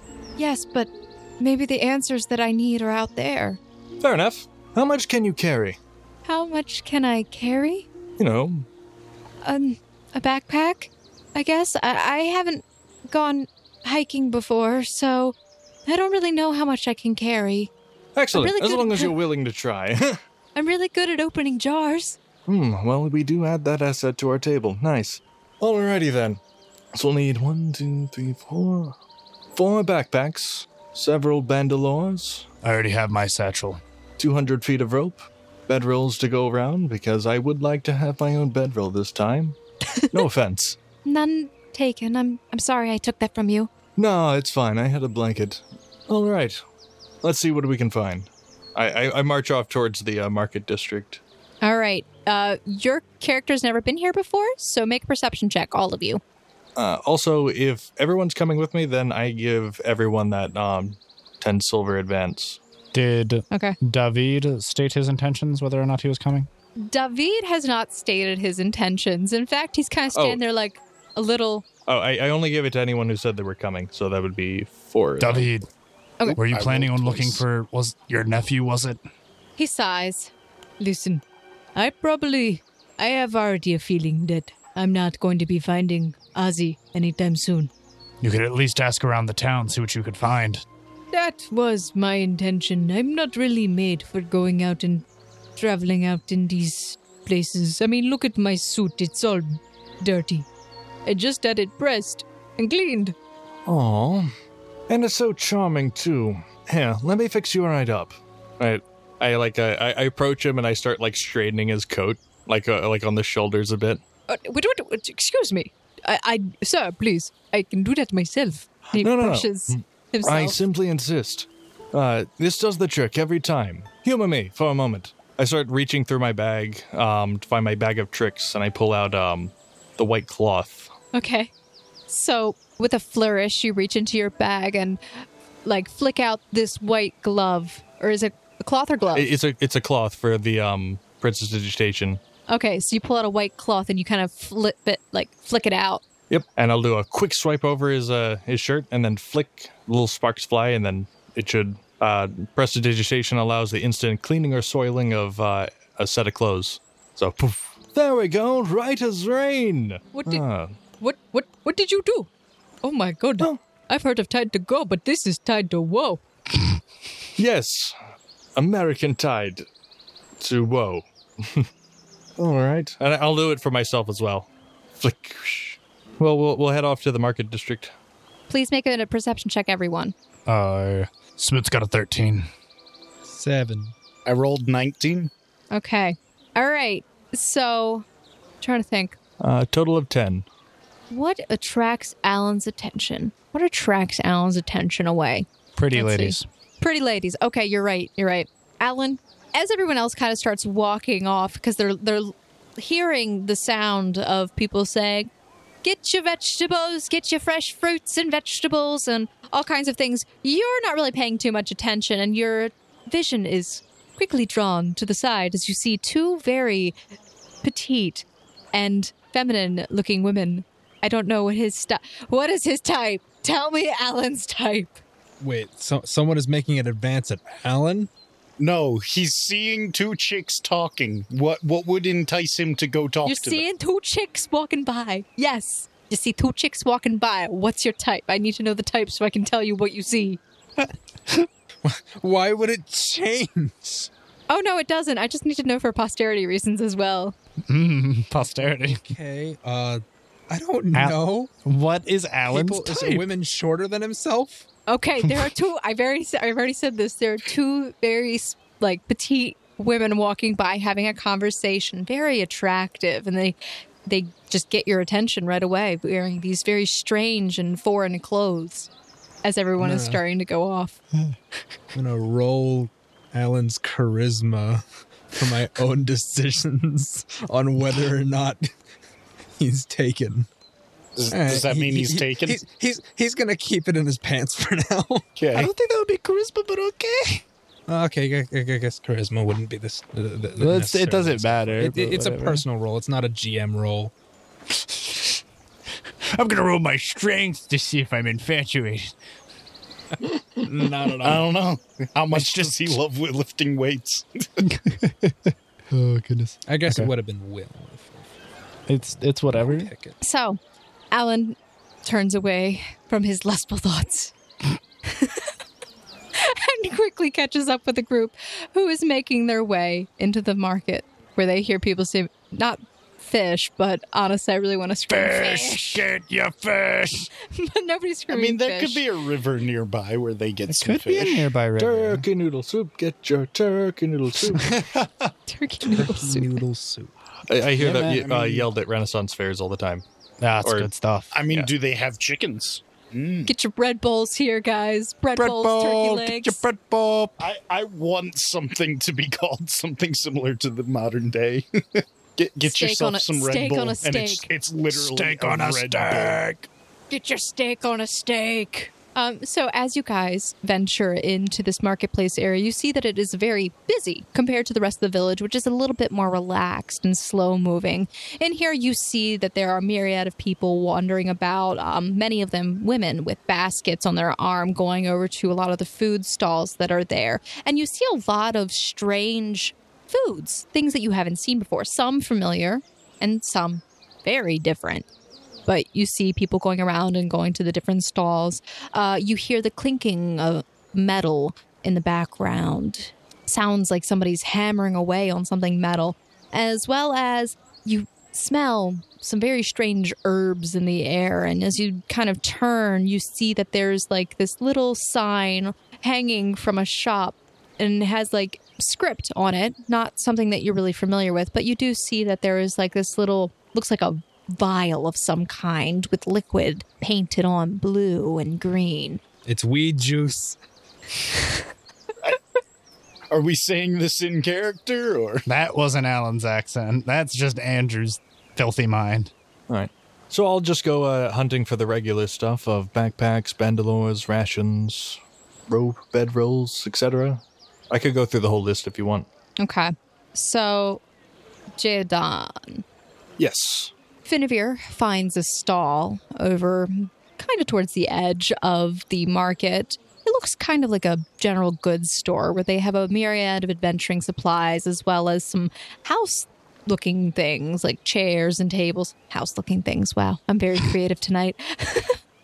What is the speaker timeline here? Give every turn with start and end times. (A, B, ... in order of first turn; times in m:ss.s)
0:00.4-0:03.6 A
0:04.0-0:05.8 B
0:06.2-0:07.9 A
0:08.2-0:08.7 B
0:09.4-0:17.7 A
0:18.2-0:20.2 B
0:18.3-0:19.2 A
0:20.6-0:22.2 A
0:22.5-0:26.4 B
0:26.9-0:29.0 B
0:29.6-0:32.5 B
0:32.6-0:33.8 C
0:34.2-0:39.6 B
0:40.1-0:40.8 B
0:41.0-0:43.7 A
0:44.0-0:46.6 B
0:47.2-0:51.2 B
0:51.6-0:56.2 A
0:56.8-1:02.6 B
1:02.9-1:06.5 C
1:03.5-1:03.8 A
1:06.8-1:11.6 A
1:10.1-1:10.4 B
1:11.9-1:15.5 B
1:15.2-1:15.7 C
1:16.3-1:17.4 D
1:16.3-1:19.0 C
1:19.6-1:21.2 A
1:21.8-1:27.7 A
1:28.2-1:30.6 C
1:31.1-1:40.5 A
1:41.1-1:43.2 A
1:43.7-1:44.3 B
1:44.9-1:54.0 B
1:54.3-2:00.6 A
1:59.0-2:10.9 B
2:11.1-2:11.5 A
2:12.1-2:15.0 A
2:15.6-2:19.3 A
2:19.1-2:22.2 B
2:22.5-2:26.0 A
2:26.3-2:40.8 B
2:40.1-2:40.4 A
2:41.0-2:42.3 A
2:42.8-2:46.2 A
2:47.4-2:48.0 B
2:48.6-2:49.6 B
2:50.4-2:51.7 B
2:52.4-2:57.9 B
2:58.5-3:00.1 A
3:00.5-3:02.5 C
3:03.2-3:03.9 E
3:04.2-3:05.3 D
3:05.7-3:08.1 A
3:08.6-3:09.2 A
3:09.4-3:10.5 B
3:11.1-3:25.3 A
3:15.8-3:16.4 C
3:25.8-3:37.0 A
3:37.6-3:45.0 A
3:45.4-3:48.1 E
3:48.6-3:53.6 D
3:53.2-4:00.4 A
4:01.8-4:04.1 E
4:04.5-4:07.4 A
4:07.7-4:09.0 C
4:08.8-4:11.5 E
4:10.9-4:13.3 C
4:12.5-4:14.7 E
4:14.9-4:28.9 A
4:29.4-4:31.0 A
4:29.8-4:30.2 E
4:31.9-4:38.7 E
4:39.6-4:40.5 E
4:41.2-4:42.6 D
4:41.3-4:45.3 E
4:45.4-4:45.7 D
4:45.5-4:47.4 C
4:47.9-4:54.1 E
4:50.6-4:52.6 C
4:54.7-4:55.4 C
4:56.3-4:59.2 C
5:00.6-5:01.5 E
5:01.2-5:04.5 D
5:02.3-5:03.0 C
5:04.7-5:05.4 C
5:05.9-5:07.1 C
5:06.7-5:08.3 E
5:08.9-5:09.9 C
5:09.5-5:10.2 E
5:10.2-5:10.6 A
5:11.1-5:14.3 A
5:15.0-5:15.5 A
5:16.4-5:26.1 A
5:25.1-5:27.3 C
5:27.4-5:29.0 A
5:28.3-5:31.5 D
5:30.7-5:32.2 C
5:31.8-5:34.8 B
5:34.5-5:34.8 C
5:35.5-5:36.6 A
5:35.9-5:37.1 E
5:37.5-5:40.0 B
5:37.8-5:38.7 D
5:37.8-5:38.2 C
5:40.4-5:41.3 C
5:40.6-5:40.9 B
5:41.3-5:43.5 D
5:43.5-5:46.6 A
5:45.4-5:47.4 C
5:45.4-5:46.3 D
5:47.4-5:56.4 D
5:52.6-5:54.5 A
5:54.9-5:56.7 C
5:57.1-6:25.1 A
6:25.7-6:59.2 A
6:59.5-7:00.6 E
7:03.3-7:05.5 D
7:05.5-7:09.3 C
7:09.7-7:19.3 B
7:19.6-7:21.0 A
7:21.8-7:22.8 A
7:23.4-7:23.9 B
7:24.2-7:42.2 A